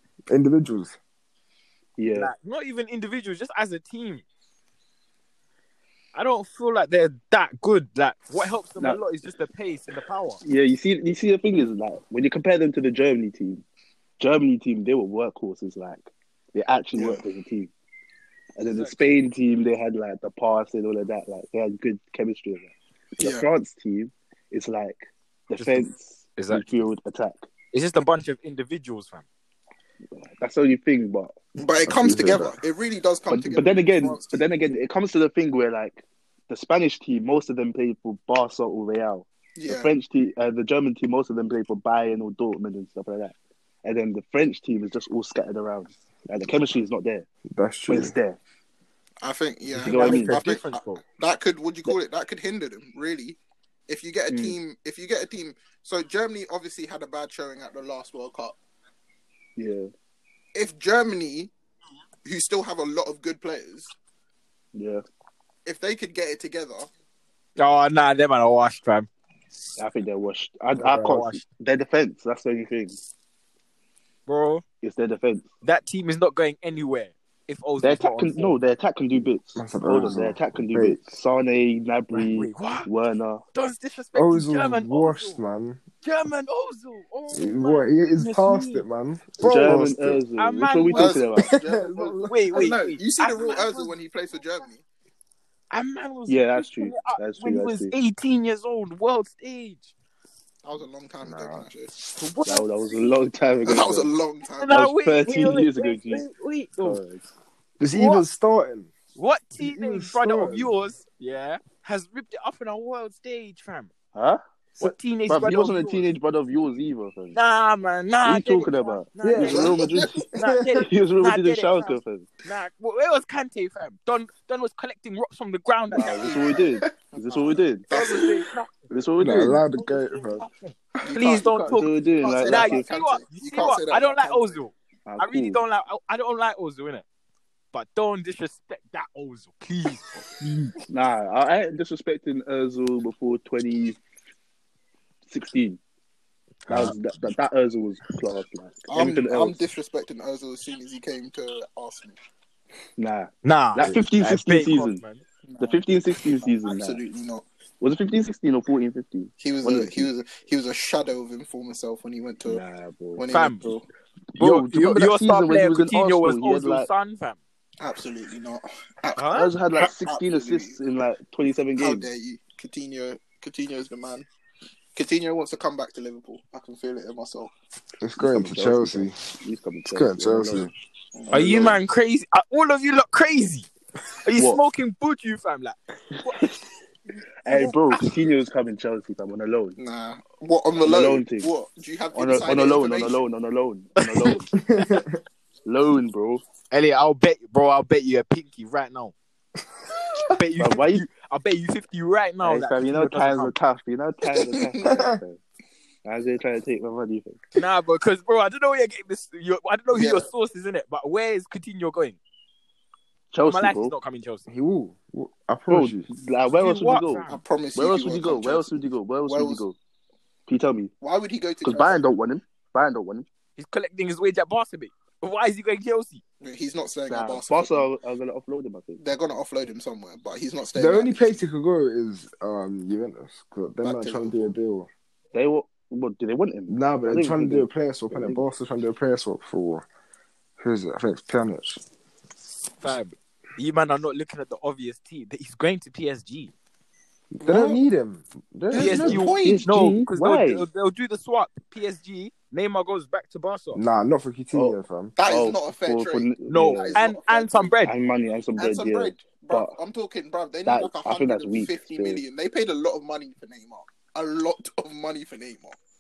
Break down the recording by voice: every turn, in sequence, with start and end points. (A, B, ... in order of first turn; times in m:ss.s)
0:00.3-0:01.0 A
0:02.0-0:02.3 B
0:02.2-0:04.2 C
0:06.1-0:10.4 C
0:10.4-0:13.6 B
0:14.2-0:17.7 B
0:17.0-0:17.2 D
0:18.6-0:27.4 B
0:18.6-0:19.2 C
0:23.2-0:23.5 D
0:25.6-0:25.8 C
0:26.4-0:26.8 C
0:27.7-0:29.2 C
0:30.2-0:31.4 B
0:31.6-0:34.3 D
0:31.9-0:32.6 A
0:33.3-0:47.3 B
0:39.6-0:39.9 D
0:47.5-0:48.2 A
0:47.9-0:48.4 B
0:49.2-0:58.6 D
0:49.8-0:50.4 B
0:49.8-0:51.0 C
0:54.3-0:54.6 B
0:59.6-0:59.9 B
1:00.5-1:01.5 D
1:02.2-1:03.9 D
1:04.7-1:05.0 B
1:05.6-1:06.9 D
1:07.6-1:09.1 C
1:09.8-1:13.0 B
1:10.8-1:11.1 A
1:10.8-1:11.4 C
1:14.3-1:14.6 C
1:14.8-1:15.5 B
1:15.6-1:18.6 C
1:17.8-1:23.4 B
1:19.6-1:21.0 A
1:22.1-1:22.9 C
1:23.5-1:25.4 C
1:24.2-1:25.8 A
1:26.0-1:28.8 C
1:27.3-1:30.2 A
1:29.4-1:31.5 B
1:30.4-1:31.2 C
1:30.9-1:34.8 D
1:31.4-1:32.5 A
1:32.3-1:33.9 C
1:35.7-1:39.9 C
1:36.3-1:37.9 B
1:40.6-1:41.9 D
1:41.2-1:41.7 A
1:42.2-1:42.7 C
1:42.5-1:44.1 B
1:43.6-1:44.8 D
1:44.6-1:47.0 C
1:44.7-1:46.2 B
1:46.8-1:47.2 B
1:47.8-1:48.9 A
1:47.9-1:48.2 C
1:49.2-1:53.9 C
1:49.6-1:50.7 A
1:54.2-1:54.4 B
1:54.8-1:56.0 C
1:55.3-1:57.4 B
1:57.3-1:59.8 C
1:58.2-2:00.2 B
1:59.2-2:00.8 A
1:59.4-2:00.1 D
2:00.3-2:06.5 C
2:00.9-2:02.3 B
2:05.9-2:07.9 B
2:06.0-2:06.4 D
2:07.1-2:08.4 D
2:07.9-2:09.0 C
2:08.9-2:09.6 B
2:09.2-2:10.5 A
2:11.0-2:14.6 D
2:11.1-2:17.0 C
2:11.6-2:12.9 B
2:15.1-2:15.6 B
2:17.7-2:20.7 C
2:20.9-2:24.0 B
2:25.3-2:25.8 B
2:26.7-2:27.0 C
2:26.7-2:29.6 B
2:28.9-2:32.2 D
2:33.0-2:35.0 B
2:33.4-2:35.2 C
2:35.5-2:35.9 D
2:35.6-2:37.0 B
2:36.4-2:37.4 D
2:37.8-2:40.1 B
2:39.4-2:42.6 D
2:42.5-2:43.8 B
2:43.2-2:43.8 D
2:43.3-2:43.7 C
2:44.4-2:46.9 B
2:44.4-2:47.4 C
2:47.8-2:50.8 D
2:49.2-2:49.5 C
2:49.3-2:52.1 B
2:51.8-2:54.3 D
2:55.0-2:57.5 D
2:58.0-2:59.2 A
2:58.2-3:00.7 B
2:59.9-3:00.7 A
3:01.2-3:01.8 D
3:01.3-3:03.7 C
3:01.4-3:01.7 B
3:04.2-3:06.4 C
3:07.4-3:09.8 B
3:07.5-3:08.1 C
3:09.8-3:13.2 D
3:10.8-3:11.5 B
3:12.1-3:14.5 B
3:14.5-3:15.2 A
3:15.6-3:16.4 B
3:16.7-3:19.1 C
3:20.3-3:23.5 C
3:20.6-3:21.0 B
3:22.4-3:25.4 B
3:24.4-3:24.9 D
3:26.0-3:27.4 B
3:27.6-3:32.2 C
3:29.9-3:30.3 D
3:33.3-3:33.9 B
3:33.4-3:34.4 C
3:34.5-3:36.1 A
3:35.7-3:39.8 B
3:36.5-3:37.4 C
3:37.3-3:39.6 D
3:40.5-3:40.9 B
3:41.0-3:42.0 D
3:41.6-3:43.3 B
3:43.6-3:46.2 C
3:46.4-3:47.9 D
3:47.1-3:49.0 B
3:49.0-3:51.3 D
3:50.8-3:54.9 A
3:53.8-3:54.5 D
3:55.3-3:58.4 B
3:56.7-3:59.9 A
4:00.6-4:01.8 A
4:02.8-4:06.5 C
4:07.4-4:09.3 A
4:07.4-4:07.8 D
4:08.7-4:09.7 D
4:08.7-4:13.8 C
4:09.4-4:10.6 B
4:13.7-4:15.2 A
4:14.5-4:17.0 B
4:15.2-4:17.7 D
4:16.5-4:17.9 C
4:17.8-4:19.8 B
4:18.6-4:25.8 D
4:20.7-4:22.2 B